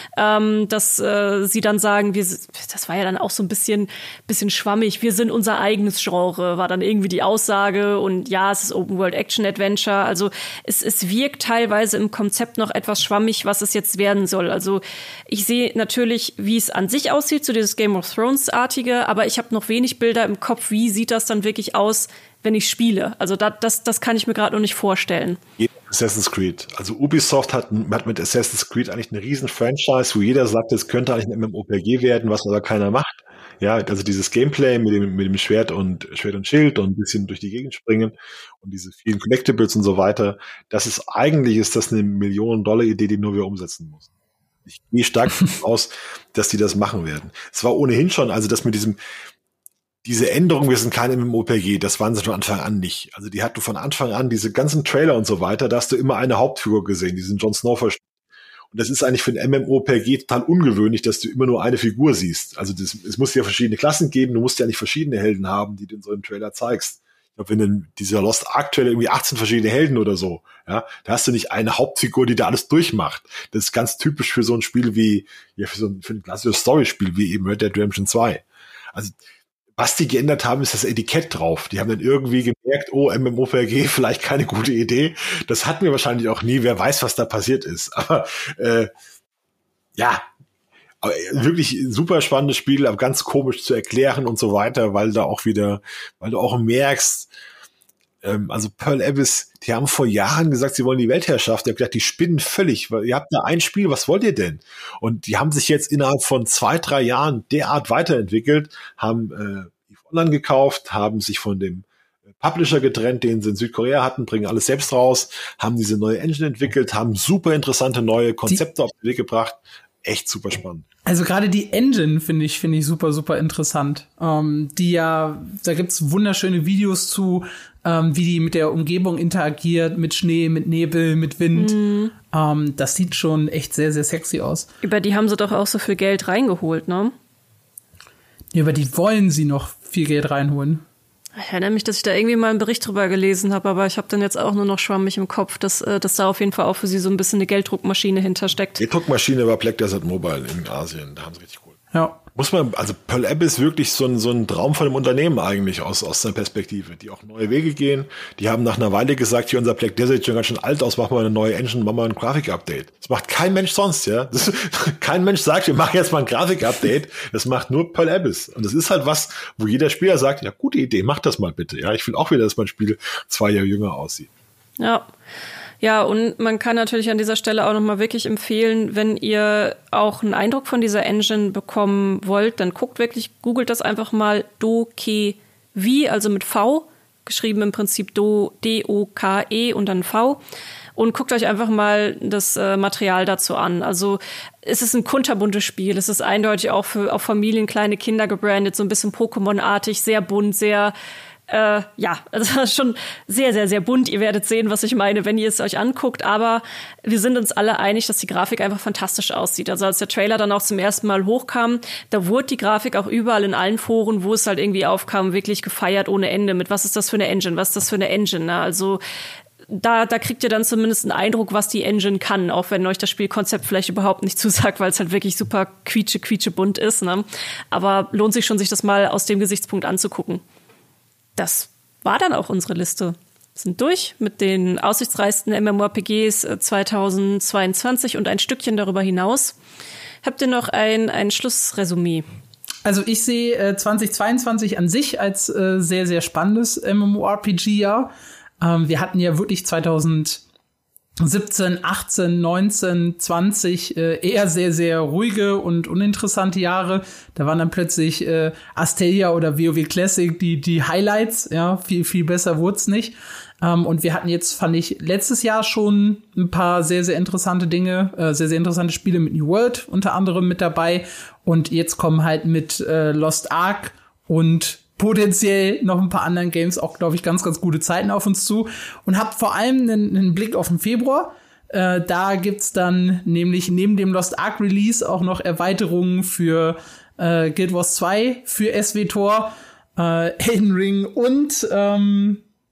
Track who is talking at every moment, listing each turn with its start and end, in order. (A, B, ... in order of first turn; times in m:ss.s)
0:00.2-0:25.4 A
0:25.6-0:44.1 B
0:44.7-0:49.0 B
0:50.0-0:58.0 B
0:58.7-1:19.2 B
1:19.8-1:28.9 B
1:30.0-1:30.2 B
1:31.0-1:37.3 B
1:38.2-2:00.8 B
2:01.0-2:11.8 C
2:11.6-2:12.1 A
2:12.3-2:14.7 C
2:14.8-2:17.1 A
2:18.5-2:20.8 C
2:21.4-2:28.8 A
2:28.8-2:31.8 B
2:31.9-2:32.2 C
2:32.4-2:54.3 B
2:54.8-2:55.1 A
2:55.8-3:10.4 A
3:11.0-3:21.0 A
3:21.5-3:39.0 A
3:39.7-3:50.4 A
3:51.4-3:59.6 A
4:00.2-4:02.3 A
4:02.8-4:10.4 C
4:11.2-4:52.4 C